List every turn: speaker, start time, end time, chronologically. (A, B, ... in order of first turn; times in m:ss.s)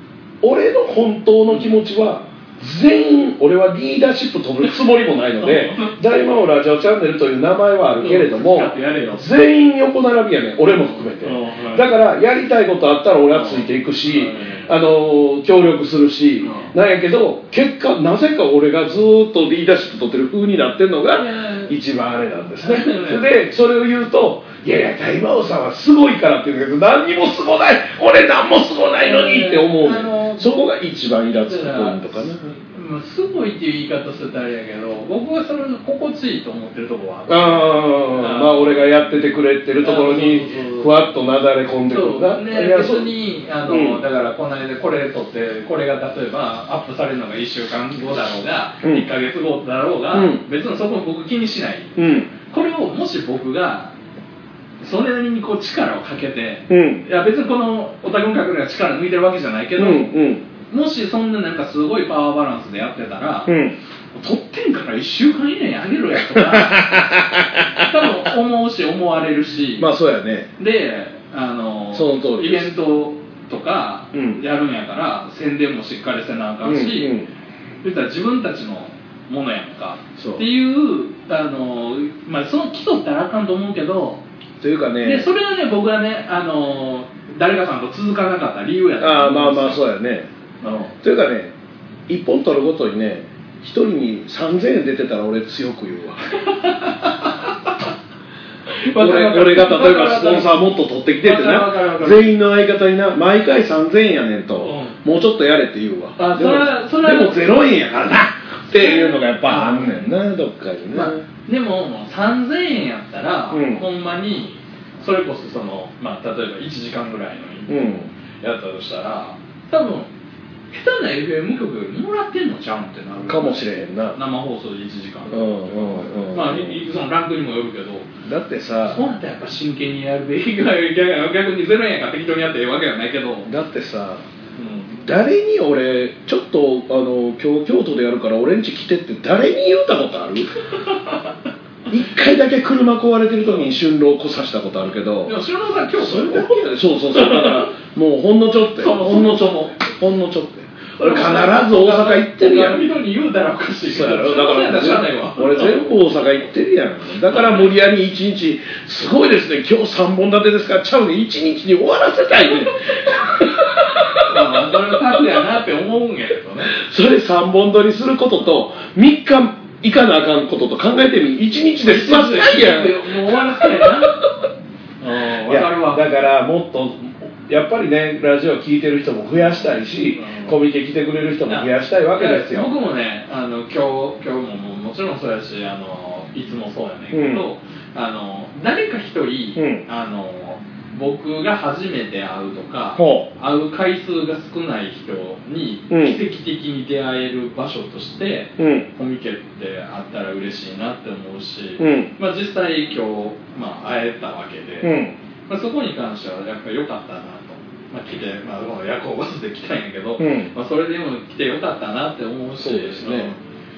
0:00.4-0:32.6 A
0:05.4-0:05.9 B
0:08.0-0:09.3 B
0:11.2-0:11.9 B
0:13.3-0:14.7 B
0:16.4-0:16.7 B
0:21.1-0:21.7 B
0:22.6-0:23.3 B
0:29.0-0:30.6 B
0:31.3-0:38.9 B
0:37.3-0:43.1 A
0:39.8-0:40.9 B
0:41.9-0:53.9 B
0:43.6-0:44.0 A
0:48.8-0:49.1 A
0:50.1-0:50.4 A
0:52.0-0:52.3 A
0:54.8-1:00.1 B
0:56.7-0:57.1 A
0:59.8-1:00.4 A
1:00.7-1:03.5 B
1:03.5-1:03.8 A
1:04.1-1:07.0 B
1:06.3-1:07.9 A
1:07.8-1:09.9 B
1:09.8-1:10.5 A
1:10.6-1:17.1 B
1:11.9-1:12.7 A
1:14.1-1:14.4 A
1:16.6-1:17.3 A
1:17.8-1:24.2 B
1:20.2-1:20.4 A
1:24.6-1:25.3 A
1:25.0-1:29.8 B
1:29.0-1:30.3 A
1:30.6-1:30.9 B
1:31.0-1:31.5 A
1:32.1-1:36.4 A
1:36.4-1:37.5 B
1:38.7-1:40.6 B
1:38.8-1:51.2 A
1:41.2-1:42.3 B
1:44.5-1:45.0 B
1:46.2-1:47.6 B
1:48.7-1:50.0 B
1:50.9-2:00.1 B
1:53.5-1:53.8 A
1:57.7-1:58.1 A
2:00.7-2:08.1 B
2:03.3-2:04.2 A
2:05.3-2:06.8 A
2:08.2-2:09.0 A
2:08.8-2:13.5 B
2:13.4-2:14.2 A
2:14.6-2:15.0 B
2:15.0-2:20.5 A
2:21.9-2:25.3 A
2:25.2-2:27.7 B
2:26.0-2:32.8 A
2:28.8-2:29.8 B
2:31.0-2:35.8 B
2:33.9-2:45.3 A
2:37.3-2:37.6 B
2:44.2-2:46.8 B
2:46.7-2:54.2 A
2:51.8-2:54.2 B
2:55.0-2:56.0 B
2:55.4-3:02.7 A
2:59.4-3:00.6 B
3:01.5-3:24.9 B
3:07.1-3:07.4 A
3:09.6-3:09.8 A
3:13.0-3:13.3 A
3:15.9-3:16.2 A
3:18.6-3:18.9 A
3:21.8-3:22.1 A
3:24.8-3:25.2 A
3:25.5-3:33.4 B
3:30.2-3:30.5 A
3:32.6-3:33.3 A